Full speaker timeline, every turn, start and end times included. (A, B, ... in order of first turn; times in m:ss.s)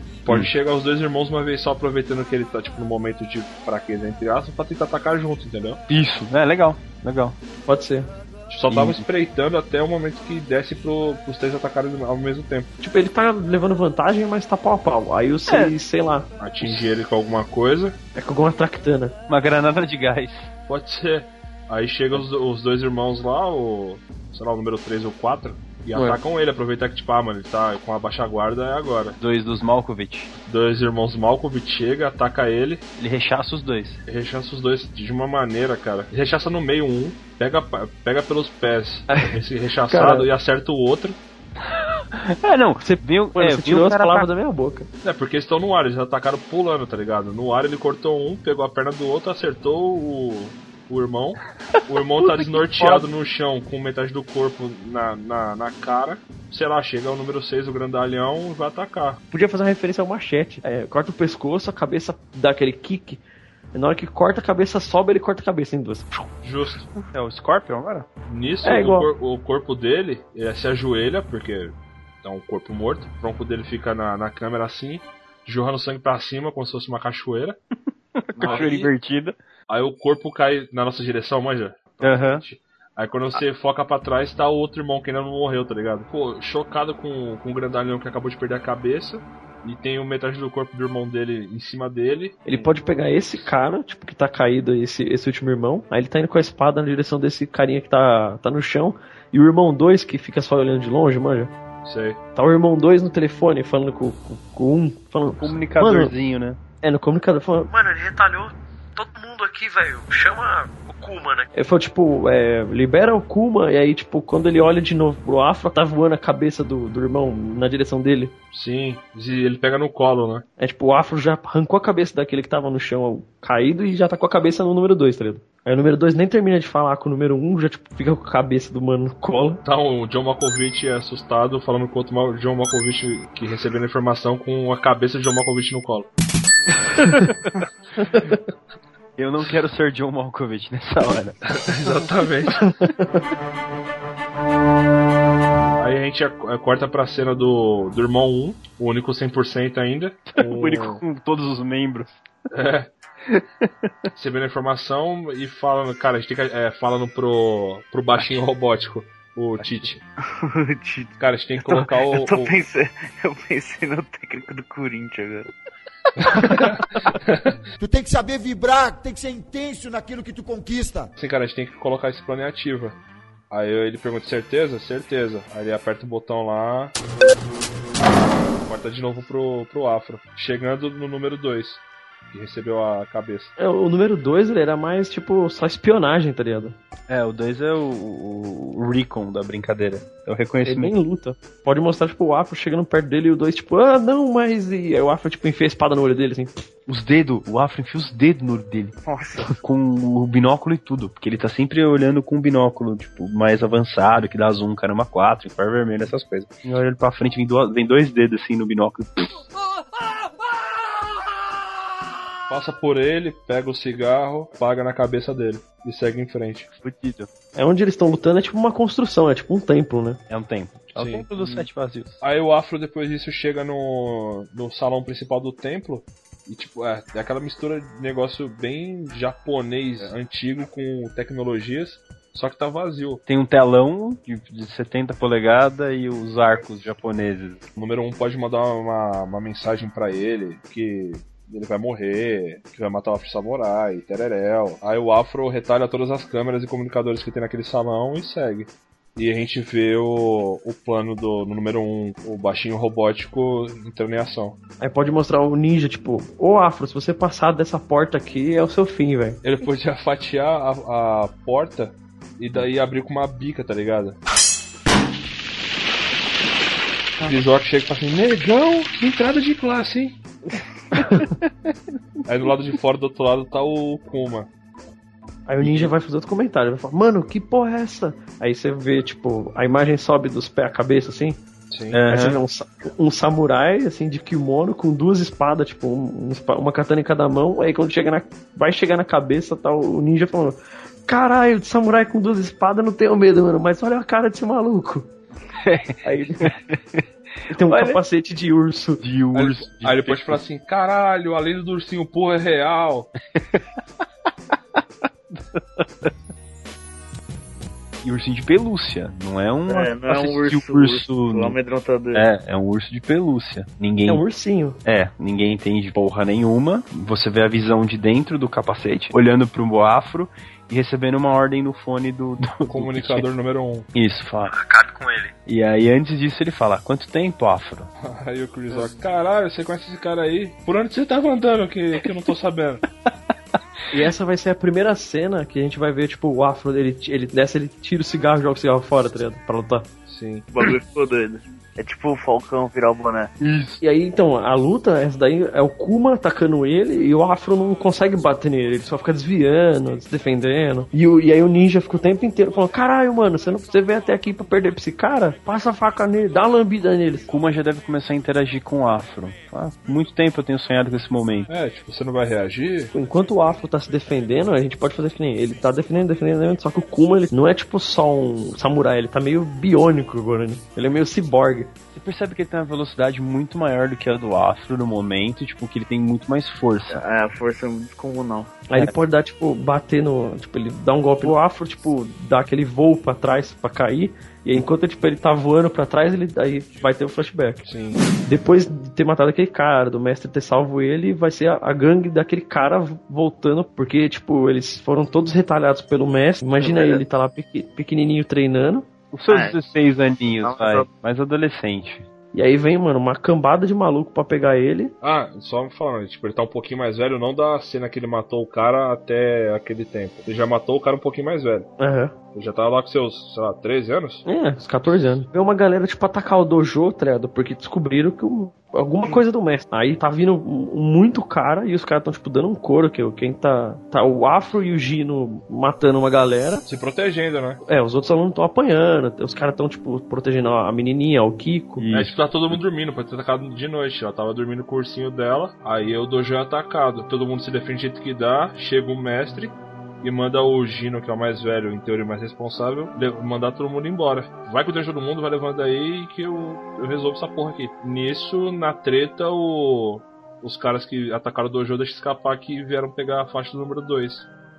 0:00.2-0:05.8 A
0:00.3-0:00.5 B
0:05.9-0:07.4 B
0:07.7-0:08.1 C
0:08.5-0:12.7 A
0:08.7-0:09.0 B
0:12.8-0:16.8 C
0:15.5-0:15.7 B
0:16.4-0:18.0 A
0:18.2-0:19.1 C
0:19.3-0:20.5 B
0:20.7-0:29.2 A
0:29.2-0:30.3 B
0:30.4-0:32.8 A
0:33.0-0:34.0 B
0:34.1-0:41.2 A
0:39.1-0:40.3 C
0:41.7-0:44.3 B
0:42.8-0:44.9 C
0:45.0-0:59.2 A
0:52.3-0:53.0 C
0:59.3-1:03.2 C
1:03.7-1:06.3 C
1:06.4-1:06.9 A
1:07.1-1:08.1 B
1:08.3-1:17.6 A
1:08.6-1:09.1 C
1:18.3-1:19.4 B
1:18.4-1:18.7 D
1:18.4-1:18.9 A
1:19.7-1:32.7 A
1:22.0-1:22.4 B
1:32.5-1:41.5 C
1:41.8-1:42.2 A
1:42.4-1:46.1 C
1:45.4-1:46.6 B
1:46.8-1:58.3 C
1:58.5-2:00.4 A
2:00.6-2:09.6 C
2:09.6-2:16.1 A
2:17.0-2:17.2 C
2:18.0-2:18.4 C
2:19.2-2:21.4 B
2:21.6-2:22.6 A
2:22.6-2:23.2 C
2:25.8-2:31.0 A
2:30.3-2:32.2 B
2:32.5-2:32.9 A
2:33.3-2:34.1 B
2:34.1-2:40.0 A
2:39.6-2:39.9 B
2:40.3-2:41.1 D
2:41.2-2:42.6 A
2:42.0-2:45.5 D
2:46.2-2:47.6 A
2:47.8-2:51.1 E
2:51.2-2:53.0 A
2:53.5-2:56.9 A
2:58.7-3:03.5 A
3:03.6-3:06.8 C
3:07.1-3:11.0 B
3:10.7-3:16.5 C
3:16.9-3:18.9 B
3:19.0-3:19.6 D
3:19.6-3:29.4 B
3:32.5-3:36.7 A
3:36.8-3:37.3 B
3:37.6-3:40.2 C
3:40.3-3:42.2 B
3:40.9-3:41.3 A
3:42.2-3:53.2 A
3:53.3-3:57.6 B
3:57.8-4:14.6 A
4:14.8-4:19.4 C
4:19.4-4:24.2 A
4:27.2-4:30.2 A
4:31.0-4:31.7 B
4:32.3-4:34.5 A
4:35.5-4:41.4 C
4:35.6-4:35.9 B
4:41.7-4:42.0 A
4:41.9-4:42.4 B
4:42.1-4:55.1 C
4:55.6-4:57.1 B
4:56.0-4:56.5 C
4:57.5-4:59.0 C
4:57.6-4:58.0 B
4:59.0-5:00.4 B
4:59.3-5:03.1 A
5:03.4-5:03.6 B
5:05.3-5:06.1 B
5:08.0-5:11.6 B
5:09.7-5:12.2 D
5:12.1-5:14.2 B
5:14.1-5:14.8 C
5:14.8-5:23.2 B
5:22.7-5:23.9 A
5:23.9-5:27.9 B
5:28.0-5:32.8 A
5:33.9-5:39.9 C
5:40.1-5:40.5 A
5:40.5-5:43.3 D
5:43.4-5:43.8 B
5:43.8-5:57.3 C
5:57.3-6:01.5 B
6:01.5-6:02.9 A
6:02.9-6:11.7 C
6:11.9-6:17.0 B
6:16.9-6:18.5 D
6:18.7-6:27.6 C
6:27.6-6:28.0 A
6:28.3-6:38.9 C
6:36.6-6:37.0 D
6:39.1-6:42.1 B
6:39.3-6:39.6 D
6:40.4-6:40.9 D
6:42.3-6:44.9 C
6:45.0-6:51.7 A
6:51.8-6:52.1 C
6:52.3-6:54.2 A
6:54.2-7:06.6 C
7:06.7-7:07.6 A
7:07.7-7:11.9 C
7:11.8-7:12.6 B
7:11.9-7:34.3 A